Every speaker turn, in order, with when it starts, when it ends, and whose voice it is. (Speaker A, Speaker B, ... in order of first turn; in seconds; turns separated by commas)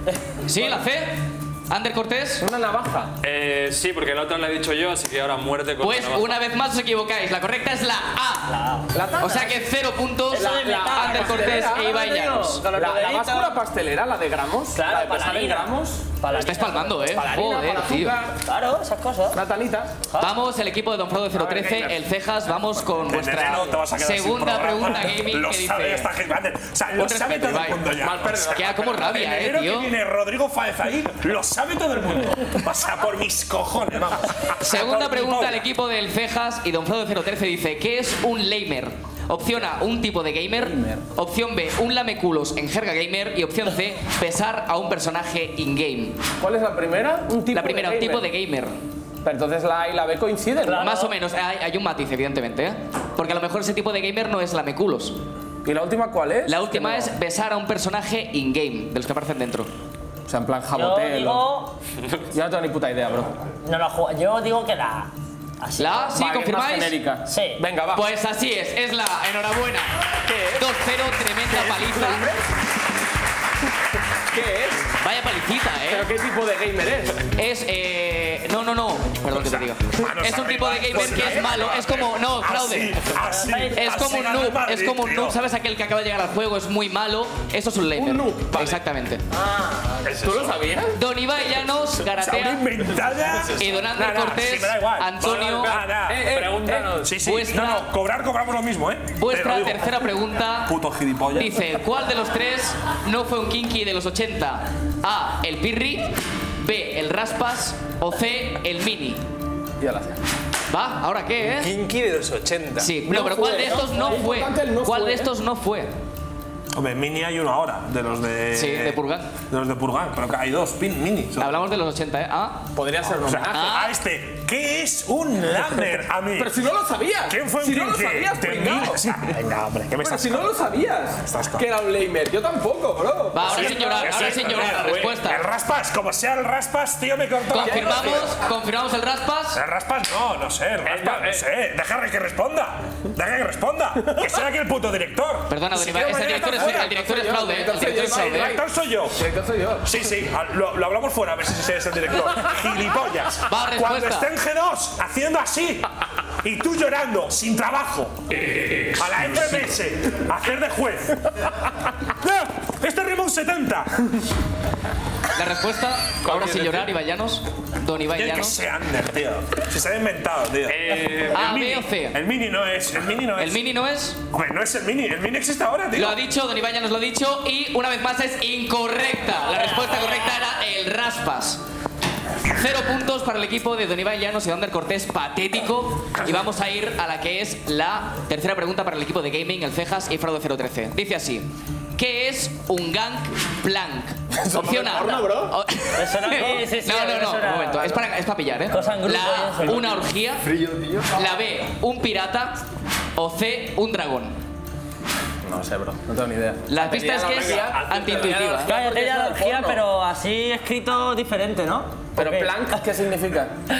Speaker A: 0.5-2.5, Speaker B: 2.4-3.1, Speaker C: 3.2-6.4, Speaker A: 5.8-8.5, Speaker D: 8.5-8.9, Speaker B: 8.9-9.7, Speaker A: 9.2-12.6, Speaker D: 10.3-13.6, Speaker B: 10.3-12.2, Speaker B: 12.7-16.1, Speaker D: 14.7-17.1, Speaker A: 16.3-18.1, Speaker B: 17.0-18.3, Speaker D: 18.4-19.4, Speaker B: 19.3-20.0, Speaker A: 20.2-26.1, Speaker B: 21.3-21.9, Speaker E: 23.0-35.6, Speaker A: 26.9-27.9, Speaker B: 28.0-29.4, Speaker A: 28.5-29.9, Speaker A: 34.6-46.2, Speaker B: 40.6-41.0, Speaker B: 46.4-48.3, Speaker A: 47.5-48.8, Speaker B: 49.2-50.9, Speaker D: 50.6-51.1, Speaker A: 50.8-55.2, Speaker B: 55.6-57.1, Speaker A: 56.5-59.7, Speaker B: 60.3-61.5, Speaker D: 60.7-61.7, Speaker B: 62.3-63.4, Speaker D: 63.6-66.2, Speaker A: 65.8-66.9, Speaker B: 66.1-68.0, Speaker D: 67.3-67.6, Speaker A: 67.9-69.9, Speaker B: 70.2-70.7, Speaker A: 70.5-72.2, Speaker B: 71.5-72.4, Speaker B: 74.3-74.9, Speaker A: 75.0-76.1, Speaker B: 75.9-77.2, Speaker A: 77.4-83.0, Speaker E: 79.3-81.8, Speaker B: 80.5-82.0, Speaker E: 82.4-85.3, Speaker D: 83.2-83.9, Speaker A: 83.7-89.2, Speaker B: 87.9-88.8, Speaker C: 90.0-90.6, Speaker B: 90.1-90.9, Speaker A: 90.9-92.6, Speaker E: 92.2-96.4, Speaker A: 93.6-95.7, Speaker C: 95.2-97.2, Speaker B: 96.1-97.0, Speaker E: 96.9-99.9, Speaker A: 97.2-97.9, Speaker A: 99.2-100.7, Speaker E: 100.7-101.6, Speaker A: 101.3-109.2, Speaker B: 109.8-110.2, Speaker A: 110.7-111.7, Speaker C: 111.5-112.9, Speaker A: 112.8-115.9, Speaker B: 113.0-115.3, Speaker E: 116.7-121.6, Speaker A: 118.5-119.3, Speaker A: 121.4-122.6, Speaker B: 122.8-123.8, Speaker E: 123.2-126.5, Speaker A: 123.5-123.9, Speaker B: 126.3-129.2, Speaker E: 127.3-130.5, Speaker B: 130.0-134.3, Speaker E: 131.2-131.7, Speaker A: 133.3-135.4, Speaker E: 133.4-138.3, Speaker C: 134.7-135.2, Speaker A: 137.5-139.6, Speaker B: 137.6-138.3, Speaker E: 139.5-146.9, Speaker C: 140.8-141.4, Speaker A: 145.5-148.6, Speaker B: 145.8-149.9, Speaker E: 148.0-149.2, Speaker E: 149.8-155.8, Speaker A: 153.5-154.3, Speaker E: 156.4-158.2, Speaker E: 159.0-161.3, Speaker E: 162.1-164.1, Speaker A: 165.3-168.6, Speaker C: 166.2-166.9, Speaker E: 168.1-173.6, Speaker C: 170.7-171.5, Speaker A: 171.3-172.2, Speaker A: 173.4-174.2, Speaker E: 174.3-176.2, Speaker A: 175.9-181.6, Speaker A: 182.5-200.5, Speaker B: 194.4-195.5, Speaker D: 195.9-198.1, Speaker D: 198.7-200.0, Speaker B: 200.5-201.1, Speaker A: 201.1-202.6, Speaker A: 203.2-204.3, Speaker B: 205.4-209.8, Speaker A: 206.7-208.7, Speaker C: 207.4-207.7, Speaker D: 208.7-212.8, Speaker B: 212.2-213.5